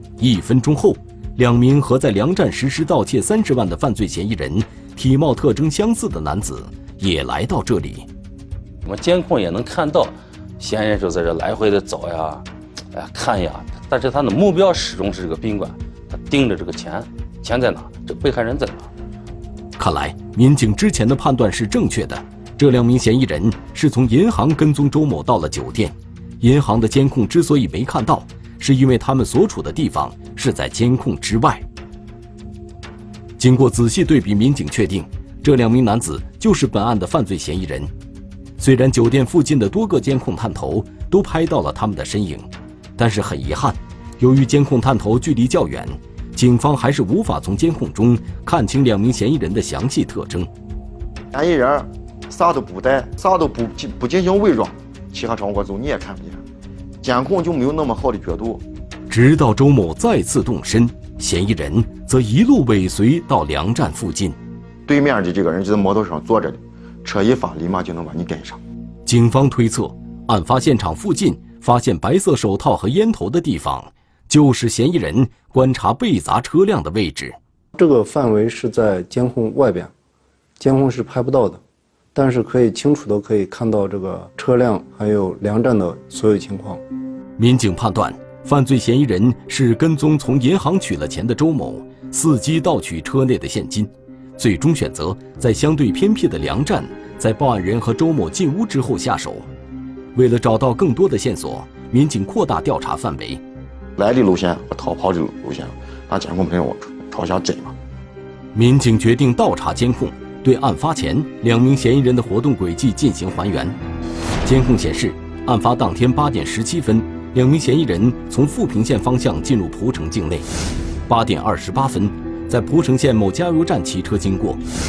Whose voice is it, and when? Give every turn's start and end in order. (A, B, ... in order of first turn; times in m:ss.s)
0:00.2-0:08.1 A
0:08.8-0:18.9 B
0:19.8-0:31.6 A
0:33.4-0:37.9 A
0:38.6-0:50.5 A
0:51.3-0:56.4 C
0:57.0-0:58.6 C
0:59.1-1:04.4 A
1:04.9-1:08.6 C
1:09.0-1:17.4 A
1:17.8-1:19.9 D
1:20.6-1:21.6 D
1:22.1-1:26.8 D
1:27.4-1:39.5 A
1:40.1-1:43.4 A
1:44.0-1:47.8 C
1:48.5-1:53.8 A
1:54.4-2:00.4 A
2:01.1-2:04.6 A